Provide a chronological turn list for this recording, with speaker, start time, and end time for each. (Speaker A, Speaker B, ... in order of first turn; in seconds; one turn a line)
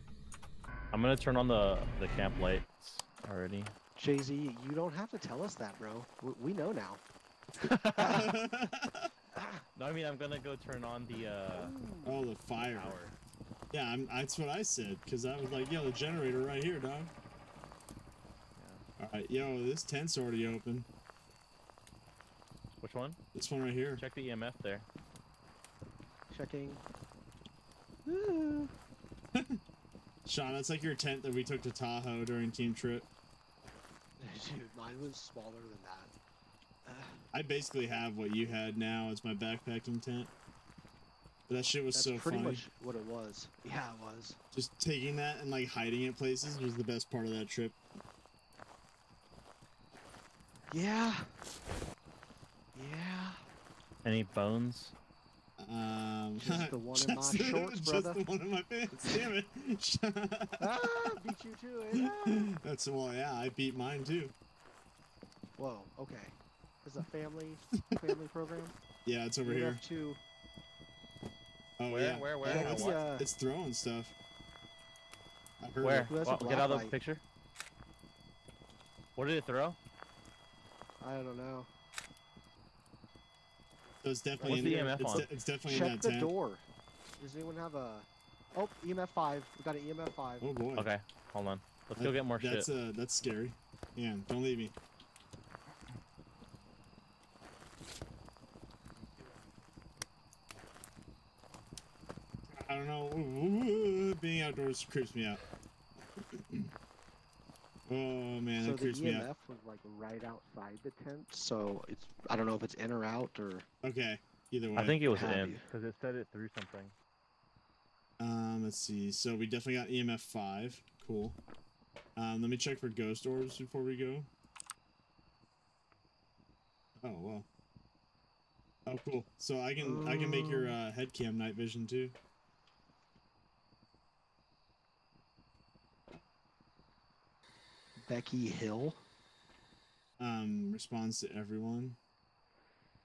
Speaker A: 0.9-3.7
Speaker B: 4.0-7.0
Speaker A: 7.6-8.3
Speaker B: 7.9-8.3
Speaker C: 8.0-9.1
Speaker B: 9.3-9.6
Speaker A: 9.7-11.8
Speaker B: 11.5-12.2
Speaker C: 12.0-13.0
Speaker A: 12.7-13.2
Speaker C: 13.7-17.1
Speaker A: 18.6-18.8
Speaker C: 19.0-20.9
Speaker A: 22.8-23.2
Speaker C: 23.3-24.0
Speaker A: 24.0-24.9
Speaker B: 26.3-26.8
Speaker B: 28.0-28.7
Speaker C: 29.3-29.6
Speaker C: 30.2-33.1
Speaker B: 34.2-36.1
Speaker B: 36.9-37.2
Speaker C: 37.3-40.3
Speaker C: 41.5-42.6
Speaker B: 41.9-44.4
Speaker C: 44.5-47.8
Speaker B: 50.7-51.3
Speaker B: 52.7-53.4
Speaker A: 54.0-54.9
Speaker C: 55.6-60.8
Speaker B: 56.4-58.2
Speaker B: 59.0-59.3
Speaker B: 60.6-62.5
Speaker C: 61.9-64.3
Speaker B: 65.6-68.8
Speaker C: 67.7-68.1
Speaker C: 69.0-69.8
Speaker B: 69.4-70.2
Speaker C: 71.8-74.1
Speaker A: 71.9-73.0
Speaker B: 72.4-73.3
Speaker C: 75.6-76.1
Speaker A: 75.8-77.2
Speaker B: 76.1-76.9
Speaker A: 79.2-79.8
Speaker B: 81.0-81.7
Speaker C: 84.0-86.3
Speaker A: 84.4-85.3
Speaker B: 84.4-86.6
Speaker B: 87.2-90.5
Speaker C: 90.4-90.9
Speaker A: 90.8-92.7
Speaker C: 92.0-94.7
Speaker C: 102.5-105.4
Speaker C: 106.2-106.7
Speaker C: 107.9-109.3
Speaker B: 108.6-113.7
Speaker C: 113.8-115.0
Speaker A: 114.8-116.9
Speaker B: 115.1-115.6
Speaker C: 118.2-121.4
Speaker C: 122.2-124.3
Speaker C: 127.0-127.5
Speaker C: 128.8-132.2
Speaker B: 129.8-130.8
Speaker B: 138.0-139.0
Speaker C: 140.2-142.0